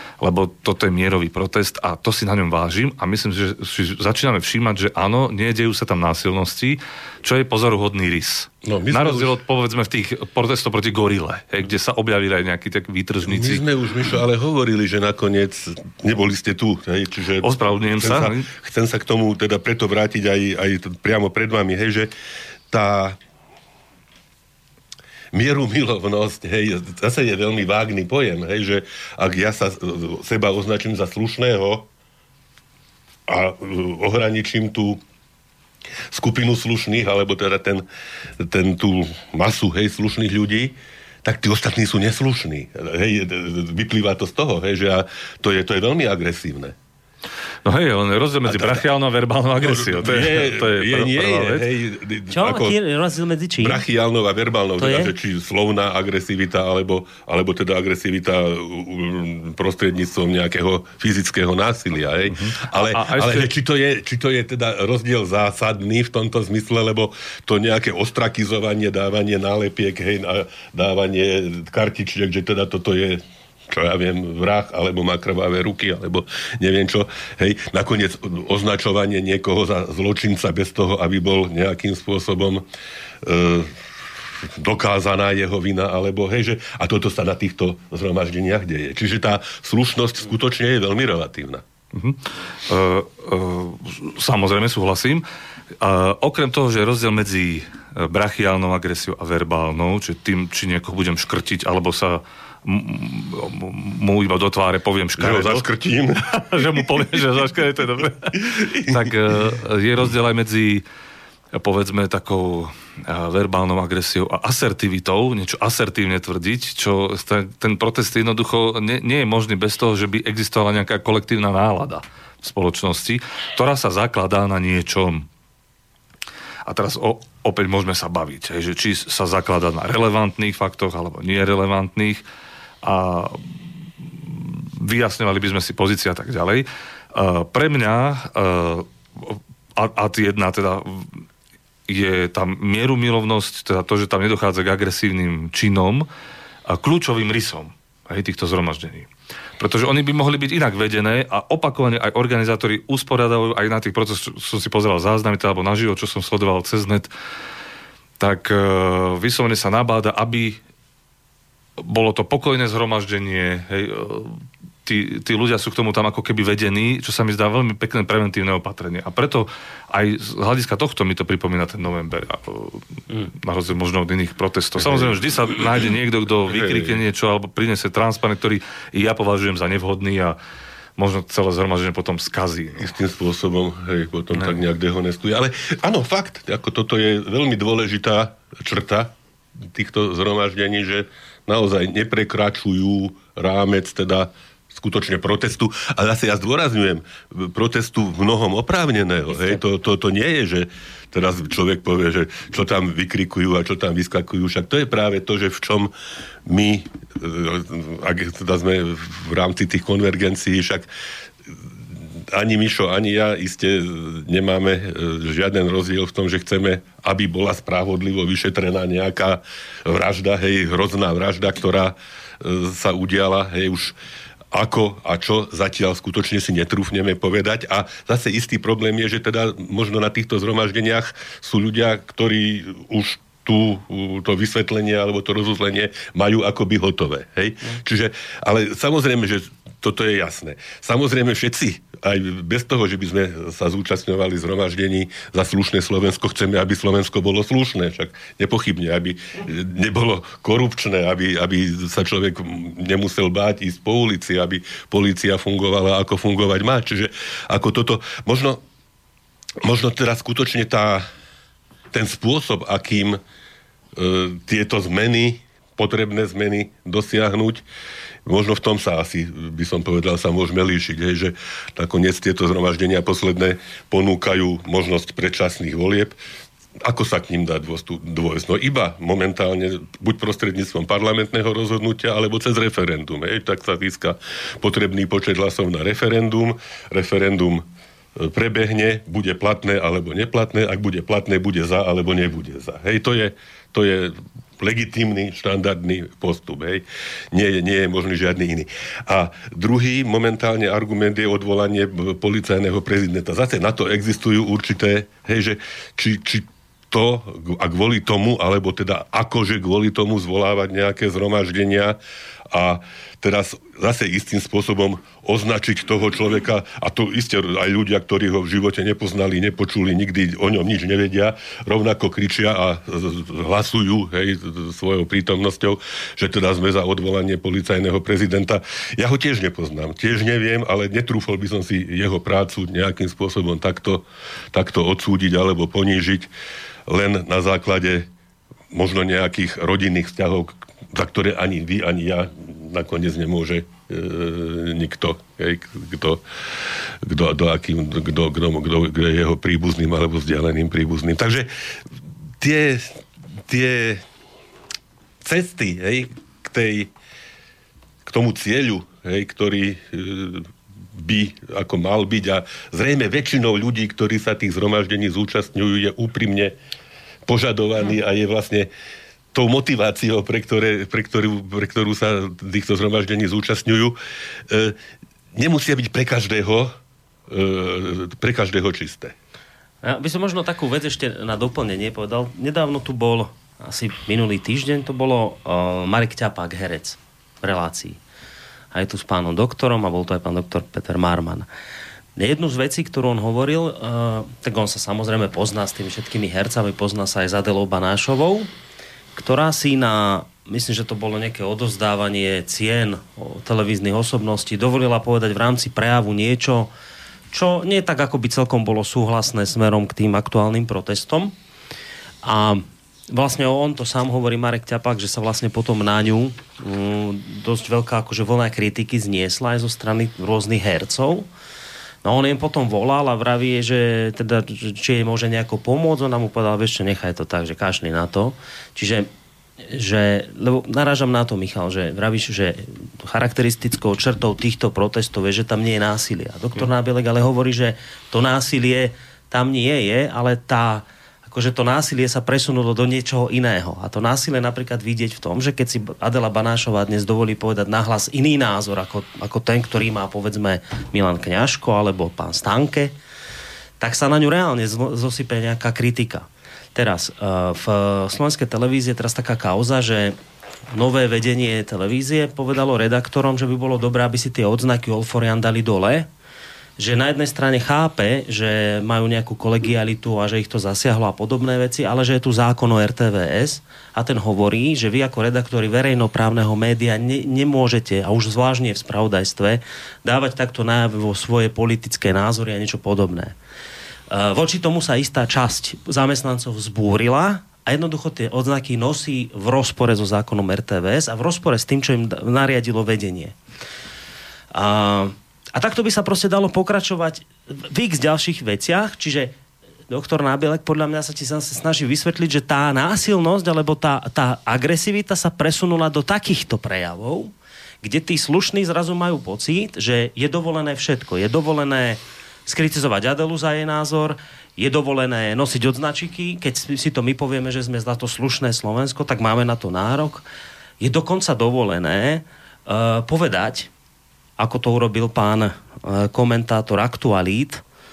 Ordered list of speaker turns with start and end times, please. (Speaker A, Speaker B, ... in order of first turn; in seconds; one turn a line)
Speaker A: 0.2-13.6
Speaker B: 8.6-9.4
Speaker B: 13.2-22.1
Speaker A: 17.4-18.5
Speaker B: 22.7-23.2
Speaker B: 25.3-31.9
Speaker B: 33.3-35.0
Speaker B: 36.1-37.8
Speaker B: 38.4-46.7
Speaker A: 47.6-51.7
Speaker B: 48.5-48.8
Speaker B: 49.6-52.8
Speaker C: 52.3-53.8
Speaker B: 53.6-82.6
Speaker C: 54.8-55.1
Speaker A: 62.3-63.5
Speaker B: 83.2-91.6
Speaker A: 91.9-95.2
Speaker A: 95.8-105.7
Speaker B: 105.2-107.1
Speaker A: 106.3-110.8
Speaker B: 108.5-109.1
Speaker A: 111.5-125.3
Speaker A: 126.7-132.2
Speaker A: 132.8-141.2
Speaker A: 141.9-146.1
Speaker A: 146.7-157.1
Speaker A: 158.2-160.6
Speaker A: 161.8-180.4
Speaker B: 174.8-175.2
Speaker B: 176.5-177.0
Speaker A: 181.0-182.9
Speaker B: 182.8-189.1
Speaker B: 189.7-205.9
Speaker B: 206.4-210.9
Speaker B: 212.2-223.9
Speaker B: 224.5-258.6
Speaker B: 259.6-261.0
Speaker B: 261.9-263.2
Speaker B: 263.9-267.6
Speaker B: 268.2-276.2
Speaker B: 276.8-287.6
Speaker B: 288.1-312.0
Speaker B: 312.5-336.3
Speaker B: 336.9-338.1
Speaker B: 338.7-351.5
Speaker B: 352.4-354.0
Speaker B: 355.2-356.9
Speaker B: 358.0-366.5
Speaker B: 367.3-368.7
Speaker B: 369.3-374.0
Speaker B: 374.5-374.8
Speaker B: 375.3-376.7
Speaker B: 377.3-379.1
Speaker C: 379.8-388.0
Speaker C: 388.7-391.5
Speaker C: 392.1-398.5
Speaker C: 399.1-406.7
Speaker C: 407.3-411.3
Speaker C: 412.2-421.3
Speaker C: 422.0-429.1
Speaker C: 429.6-452.9
Speaker C: 453.8-460.1
Speaker C: 460.7-466.1
Speaker C: 466.8-483.3
Speaker C: 484.1-493.3
Speaker C: 494.5-499.3
Speaker C: 499.9-520.2
Speaker C: 520.8-523.7
Speaker C: 524.4-527.6